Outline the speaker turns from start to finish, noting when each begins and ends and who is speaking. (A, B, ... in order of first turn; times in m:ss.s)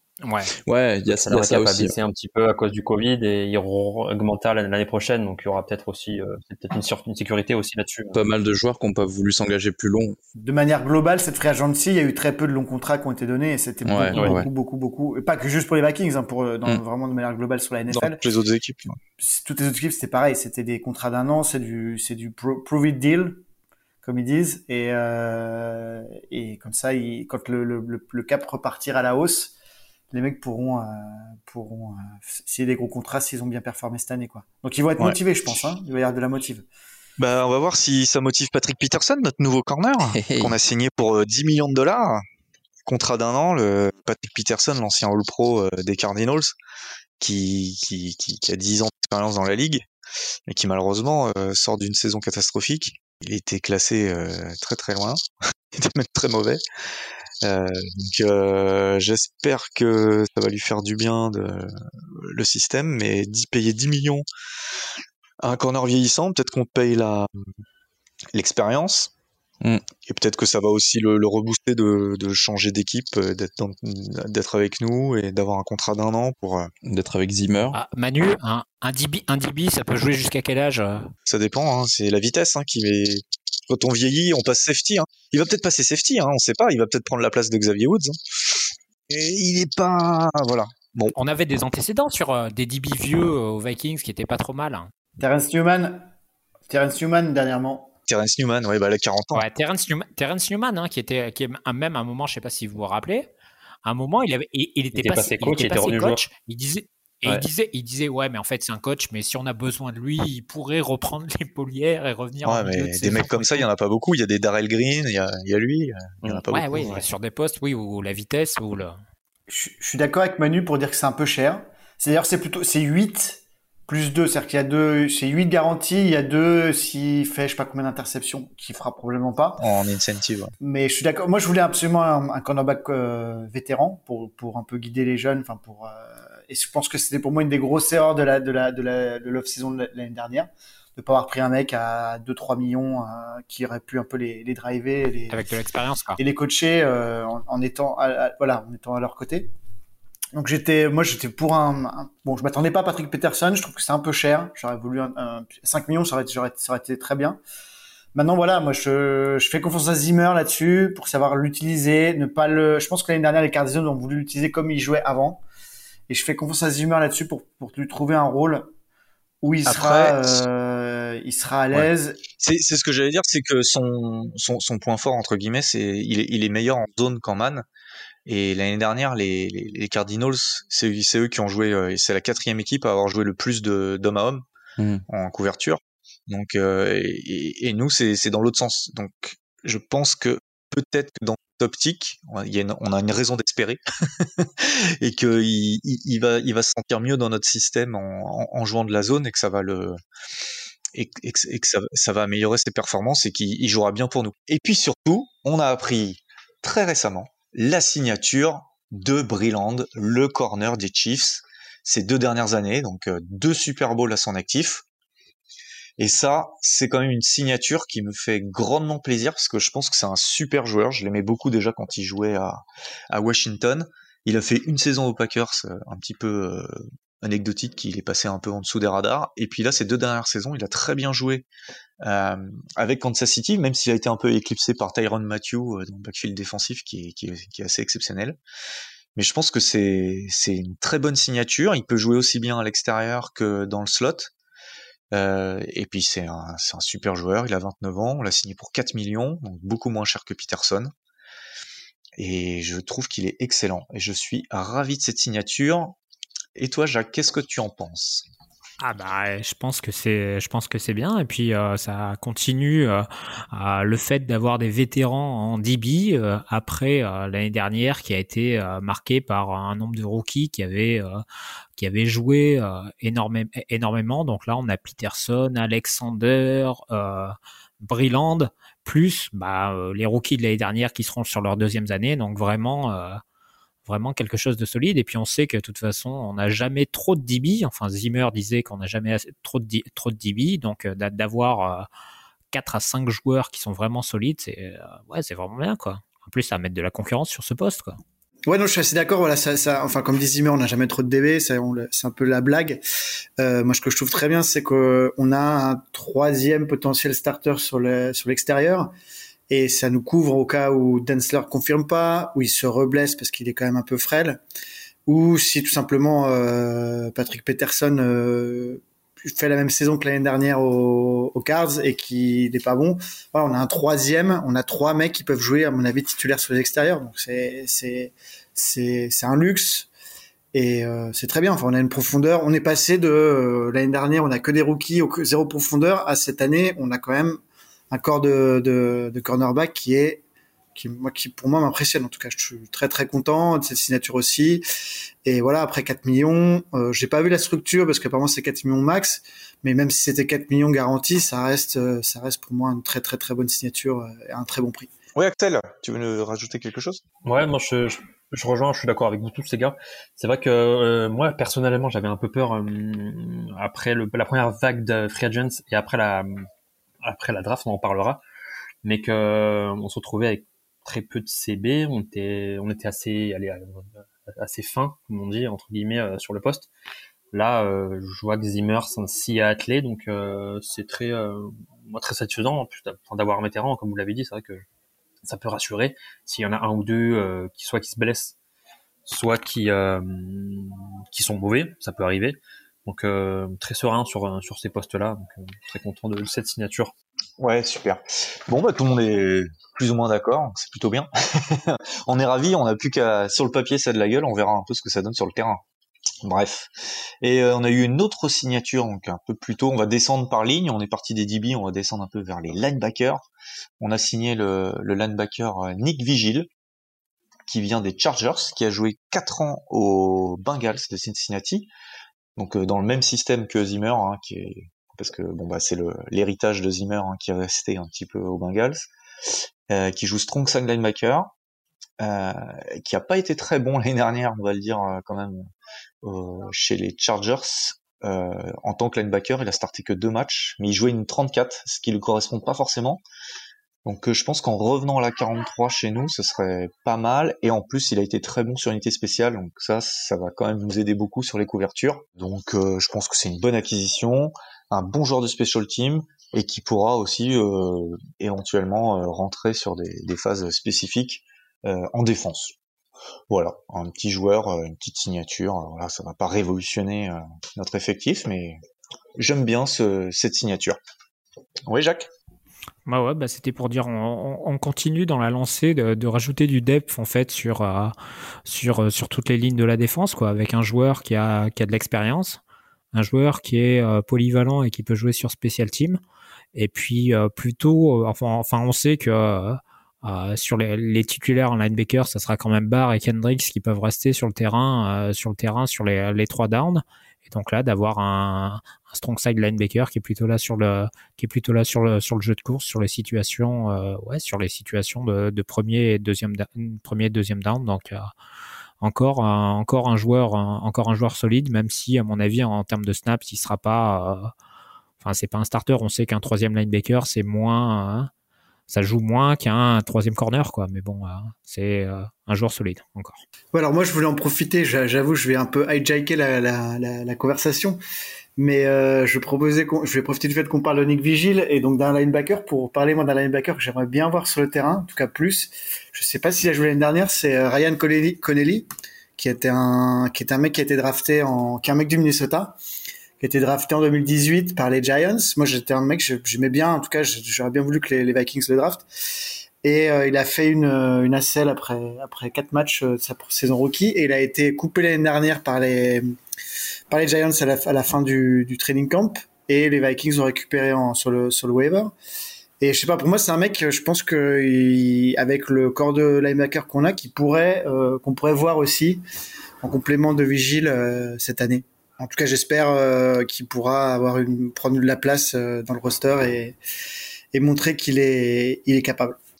0:00.2-0:00.5 A
0:00.6-0:01.9 B
0:01.1-0:08.2 C
0:08.1-0:10.2 B
0:10.4-0:18.2 D
0:13.8-0:14.5 B
0:14.1-0:14.4 C
0:17.9-0:19.0 E
0:19.2-0:23.4 D
0:24.0-0:29.5 D
0:30.1-0:36.6 D
0:37.2-0:42.2 E
0:40.1-0:40.5 B
0:42.8-0:46.6 E
0:47.2-0:49.8 E
0:50.5-0:55.2 E
0:55.7-0:56.6 E
0:57.4-1:04.2 E
1:05.4-1:07.4 E
1:08.3-1:09.1 E
1:10.0-1:16.7 E
1:16.8-1:17.8 B
1:17.7-1:21.1 A
1:21.2-1:31.1 E
1:31.2-1:34.9 A
1:35.2-1:36.1 D
1:36.7-1:37.9 D
1:38.1-1:39.4 E
1:39.3-1:43.3 A
1:43.8-1:53.7 A
1:44.9-1:46.2 C
1:52.4-1:57.0 E
1:56.5-1:59.0 A
1:59.5-2:09.6 D
2:09.6-2:10.5 E
2:10.6-2:25.4 D
2:25.3-2:26.2 A
2:26.2-2:29.5 D
2:30.3-2:37.4 D
2:38.1-2:45.4 D
2:46.1-2:48.7 D
2:49.4-2:52.2 D
2:49.6-2:50.4 E
2:51.7-2:57.6 E
2:58.2-3:04.4 E
3:04.8-3:05.0 B
3:05.1-3:20.0 E
3:20.9-3:34.8 E
3:36.0-3:51.4 E
3:52.0-3:58.4 E
3:59.2-4:04.3 E
4:05.1-4:10.9 E
4:12.2-4:16.0 E
4:16.6-4:18.2 E
4:18.8-4:31.2 A
4:31.8-4:43.2 A
4:43.8-4:51.9 A
4:52.5-4:58.0 A
4:58.5-5:02.8 D
5:03.4-5:08.9 D
5:09.5-5:14.4 D
5:15.0-5:29.9 D
5:30.5-5:37.4 D
5:37.9-5:40.2 D
5:40.7-5:44.6 D
5:45.2-5:54.9 D
5:55.1-5:57.0 E
5:57.2-6:06.5 C
6:07.0-6:08.2 C
6:08.8-6:16.7 C
6:17.3-6:24.6 C
6:25.2-6:28.3 C
6:29.1-6:36.9 C
6:37.4-6:45.6 E
6:46.2-6:53.3 E
6:53.8-6:56.5 E
6:57.5-7:01.7 E
7:02.4-7:08.9 E
7:09.7-7:11.3 E
7:12.0-7:15.5 E
7:16.0-7:23.0 E
7:23.8-7:42.5 E
7:43.3-7:48.6 E
7:49.2-7:50.8 E
7:51.7-7:52.1 E
7:52.8-7:57.9 A
7:58.4-8:02.4 A
8:02.9-8:06.0 A
8:06.5-8:28.1 A
8:28.8-8:34.3 A
8:35.0-8:38.1 A
8:38.7-8:43.2 A
8:43.5-8:47.8 D
8:48.4-9:02.6 D
9:03.2-9:08.8 D
9:09.6-9:16.1 D
9:16.9-9:21.9 D
9:22.6-9:29.0 D
9:29.6-9:36.6 D
9:37.3-9:39.2 D